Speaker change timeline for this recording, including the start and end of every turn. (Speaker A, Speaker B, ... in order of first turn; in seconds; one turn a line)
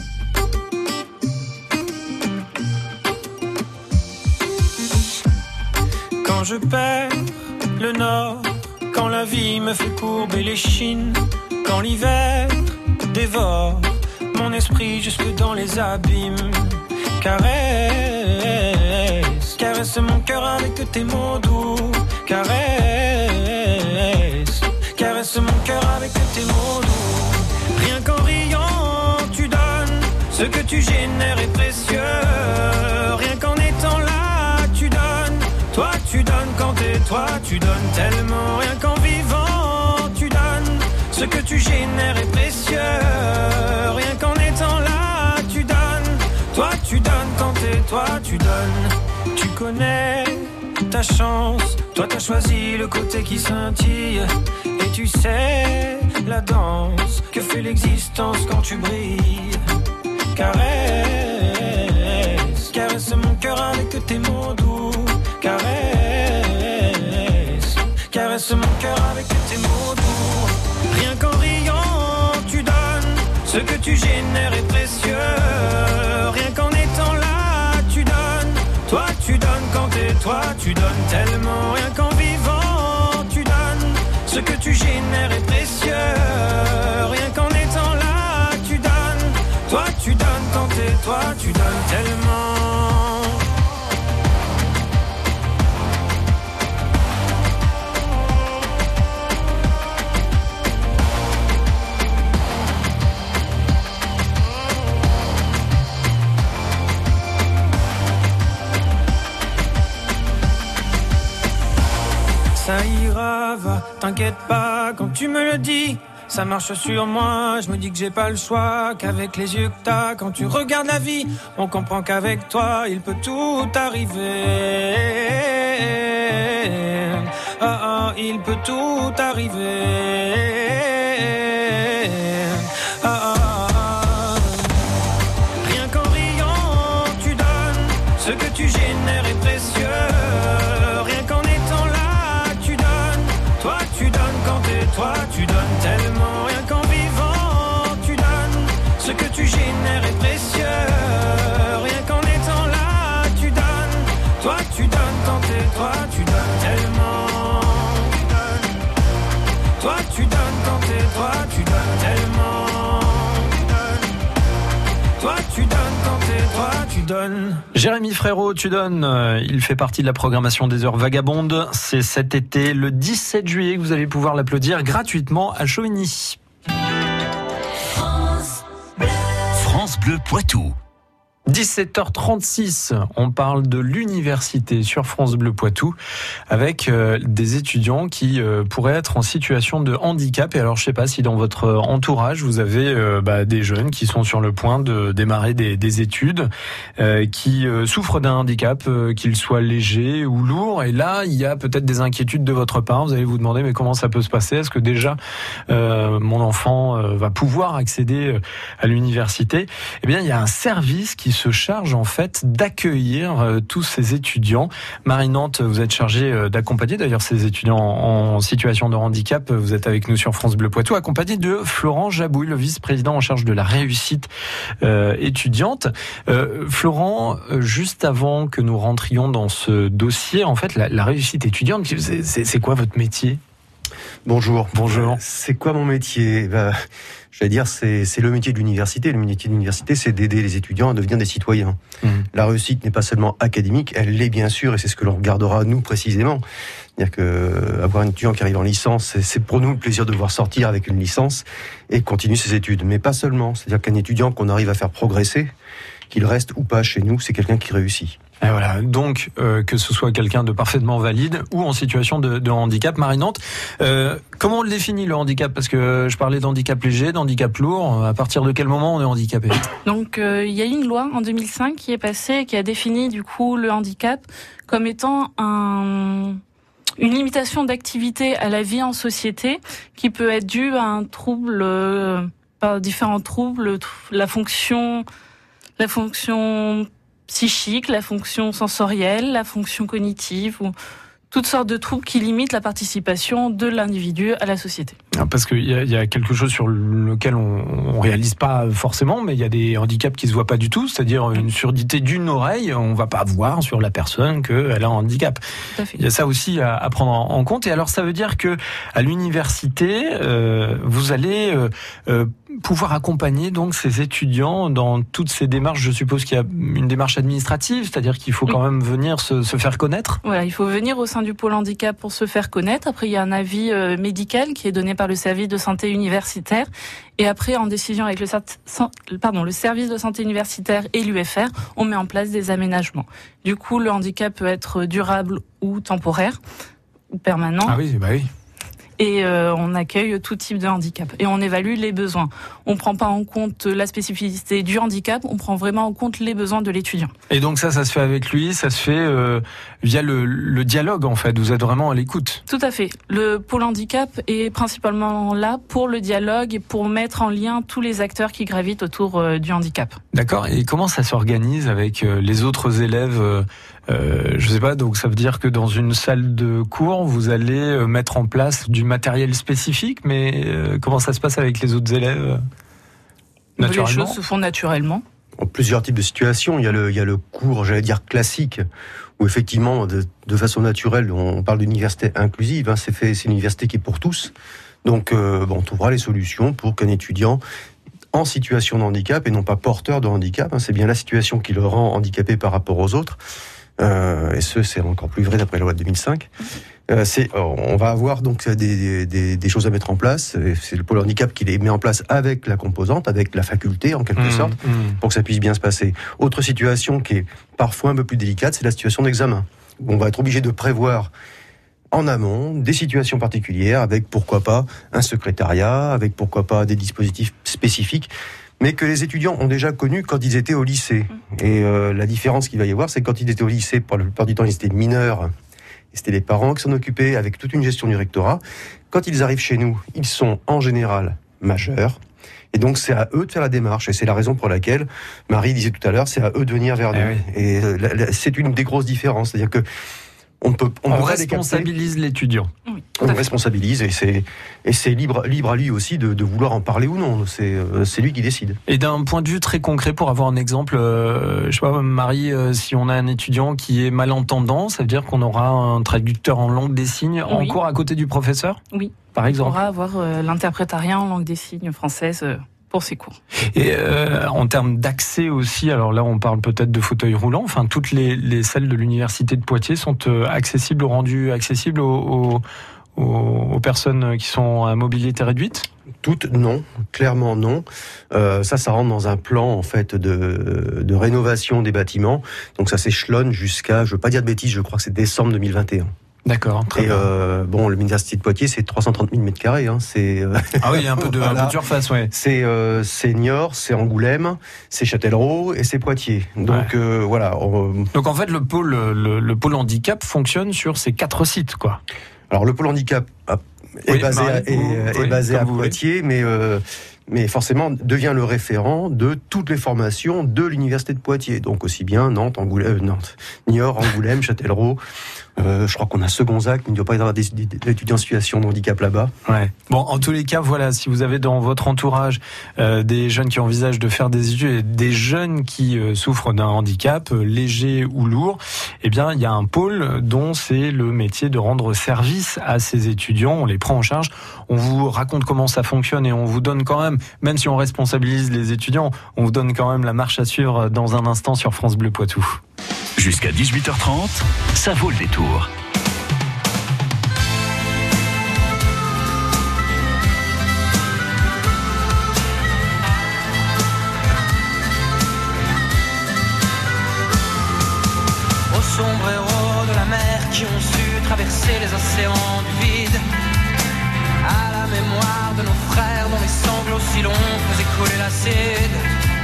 Speaker A: 6.2-59.6
Speaker A: 60.3-93.4
Speaker A: 112.5-134.7
Speaker A: 135.6-158.7
Speaker A: 159.8-164.1
Speaker A: 165.2-167.6
Speaker B: 167.7-176.4
Speaker C: 179.5-180.7
Speaker B: 181.5-186.0
Speaker B: 186.5-224.3
Speaker B: 224.8-233.4
Speaker D: 234.2-236.7
Speaker B: 234.7-235.2
Speaker D: 237.3-241.8
Speaker D: 242.3-246.4
Speaker D: 247.0-255.5
Speaker D: 256.1-258.2
Speaker B: 258.4-269.6
Speaker E: 269.9-276.4
Speaker E: 277.0-285.1
Speaker E: 285.8-290.7
Speaker E: 291.3-295.0
Speaker B: 295.1-305.4
Speaker E: 305.8-306.0
Speaker B: 305.9-320.2
Speaker E: 320.2-326.7
Speaker E: 327.2-336.4
Speaker E: 337.1-337.8
Speaker B: 337.6-338.3
Speaker E: 339.0-347.1
Speaker B: 347.3-352.4
Speaker E: 352.5-360.0
Speaker B: 360.1-372.4
Speaker B: 373.6-374.2
Speaker E: 373.6-375.0
Speaker D: 375.4-378.6
Speaker D: 379.2-384.3
Speaker D: 384.8-387.4
Speaker D: 388.1-393.2
Speaker D: 393.8-396.3
Speaker D: 396.9-411.1
Speaker B: 404.2-405.0
Speaker D: 411.9-425.3
Speaker D: 425.9-432.0
Speaker D: 432.5-439.6
Speaker B: 436.9-437.2
Speaker D: 440.4-441.7
Speaker B: 440.9-442.5
Speaker E: 442.7-443.2
Speaker D: 443.0-448.6
Speaker B: 448.7-459.6
Speaker E: 457.3-457.6
Speaker E: 458.7-463.2
Speaker B: 463.5-472.4
Speaker B: 473.0-475.7
Speaker D: 476.0-485.9
Speaker B: 486.2-487.1
Speaker D: 486.8-491.6
Speaker B: 490.6-492.1
Speaker D: 492.1-497.9
Speaker B: 497.9-501.8
Speaker D: 502.3-514.8
Speaker B: 503.9-505.8
Speaker D: 515.4-519.1
Speaker B: 519.3-542.4
Speaker C: 543.0-545.5
Speaker F: 558.5-563.0
Speaker F: 564.2-568.9